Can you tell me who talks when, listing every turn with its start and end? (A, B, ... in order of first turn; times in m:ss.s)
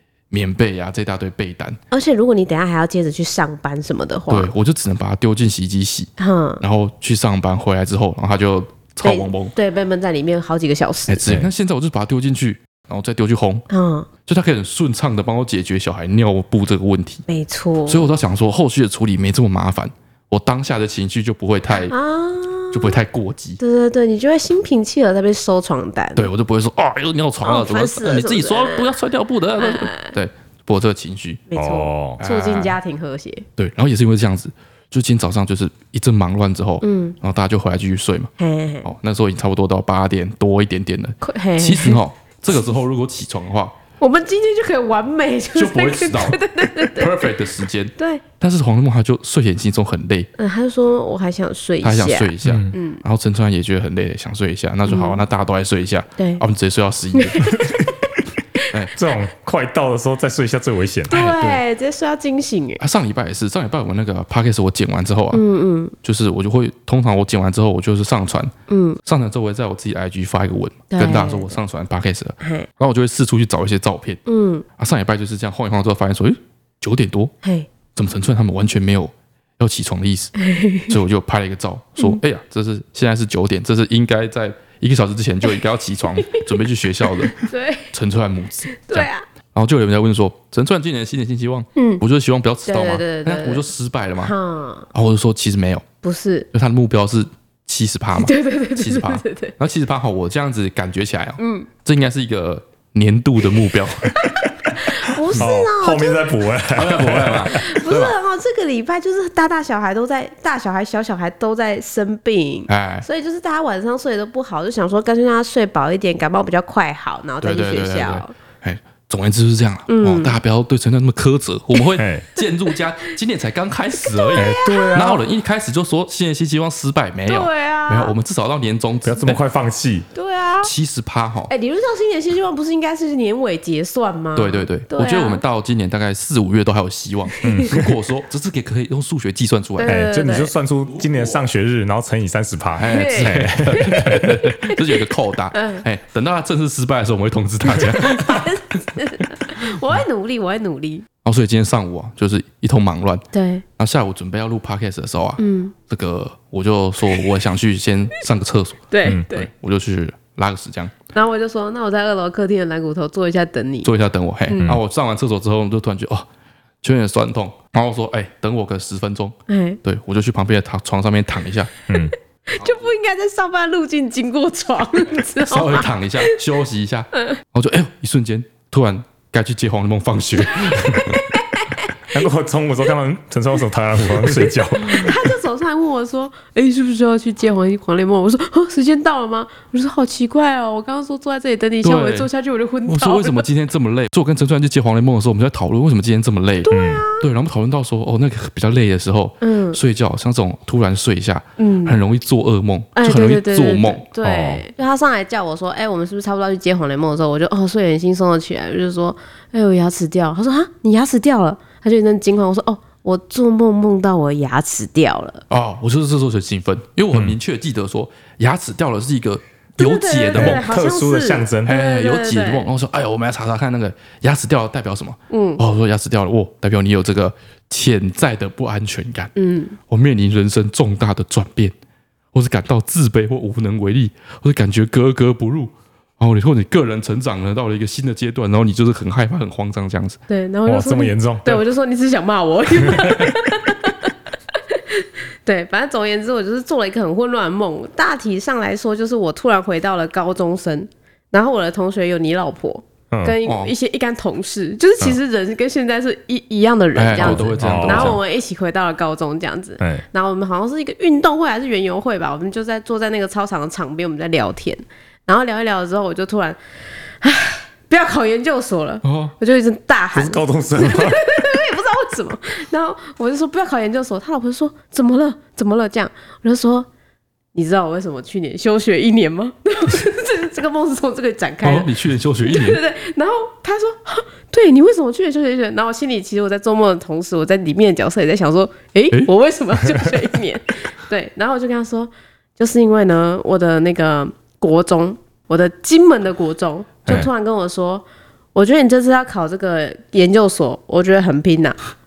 0:00.3-0:01.8 A
0:01.9-0:04.5 B
0:04.3-0:09.5 A
0:06.2-0:06.6 B
0:09.0-0:11.2 B
0:11.1-0:13.6 A
0:13.7-0:14.1 B
0:14.3-0:17.2 A
0:17.3-0:18.1 B
0:17.9-0:21.9 A
0:21.8-0:23.0 B
0:22.7-0:23.6 A
0:23.6-0:26.3 B
0:26.2-0:31.4 A
0:27.4-0:29.0 B
0:29.6-0:30.1 B
0:31.5-0:33.4 B
0:31.5-0:32.2 C
0:32.2-0:32.8 A
0:33.6-0:38.3 A
0:36.8-0:37.2 B
0:38.4-0:38.9 B
0:38.8-0:43.8 A
0:41.2-0:42.0 B
0:44.0-0:47.4 B
0:45.5-0:50.3 A
0:48.0-0:48.2 B
0:50.4-0:53.0 B
0:51.8-0:57.6 A
0:52.4-0:52.7 C
0:54.8-0:55.2 B
0:56.2-0:56.4 B
0:57.1-0:58.0 B
0:59.0-1:01.2 C
1:01.1-1:02.8 B
1:01.2-1:01.6 A
1:02.8-1:05.4 A
1:05.3-1:05.9 B
1:06.0-1:14.2 A
1:08.7-1:09.0 B
1:10.9-1:11.6 B
1:12.4-1:12.7 B
1:14.2-1:14.6 B
1:14.8-1:17.3 A
1:17.4-1:17.7 B
1:18.0-1:20.3 A
1:20.4-1:21.0 B
1:20.9-1:34.3 A
1:26.2-1:26.5 B
1:27.0-1:27.9 B
1:28.7-1:29.2 B
1:31.8-1:32.0 B
1:32.6-1:33.6 B
1:34.2-1:34.9 B
1:34.9-1:35.8 A
1:36.0-1:36.5 B
1:36.5-1:44.2 A
1:38.2-1:39.5 B
1:41.4-1:41.7 B
1:44.1-1:46.3 B
1:45.4-1:47.7 C
1:46.7-1:48.1 A
1:47.5-1:58.3 B
1:52.7-1:53.0 A
1:57.4-2:09.4 A
1:59.9-2:00.4 B
2:02.0-2:02.3 C
2:04.0-2:05.1 B
2:04.4-2:05.2 C
2:07.3-2:08.1 B
2:09.0-2:10.1 C
2:10.1-2:10.7 B
2:10.6-2:11.5 A
2:11.5-2:15.4 B
2:14.3-2:20.0 A
2:17.4-2:17.7 B
2:17.4-2:17.9 C
2:19.8-2:20.5 B
2:19.8-2:24.2 C
2:22.8-2:28.5 A
2:22.8-2:24.8 B
2:25.5-2:25.8 B
2:28.0-2:31.0 B
2:31.2-2:33.2 A
2:33.3-2:33.6 B
2:33.8-2:40.9 A
2:35.4-2:35.7 B
2:38.9-2:39.5 B
2:41.1-2:43.9 B
2:43.8-2:46.3 A
2:44.5-2:44.8 B
2:46.8-2:51.7 A
2:49.5-2:49.8 B
2:51.9-2:52.1 C
2:52.5-2:56.4 B
2:55.4-3:01.2 A
3:00.5-3:01.9 B
3:02.1-3:05.3 C
3:04.4-3:13.4 B
3:11.8-3:12.3 A
3:12.8-3:24.0 A
3:16.6-3:17.2 B
3:16.7-3:17.0 C
3:19.4-3:19.8 B
3:21.6-3:22.0 B
3:23.0-3:35.4 B
3:24.2-3:24.6 C
3:35.5-3:40.7 A
3:39.8-3:42.7 B
3:40.3-3:41.7 C
3:41.6-3:49.3 A
3:45.3-3:45.6 B
3:49.4-3:49.8 B
3:49.9-3:51.7 A
3:52.3-4:00.2 A
4:00.3-4:04.1 B
4:00.7-4:01.6 C
4:02.8-4:03.2 C
4:04.7-4:26.6 B
4:13.1-4:13.4 C
4:13.4-4:13.7 A
4:17.0-4:18.2 A
4:17.2-4:18.2 C
4:19.8-4:20.0 C
4:27.2-4:36.9 B
4:29.0-4:29.3 A
4:30.1-4:31.3 C
4:37.5-4:41.9 B
4:41.6-4:42.8 A
4:42.4-5:01.8 B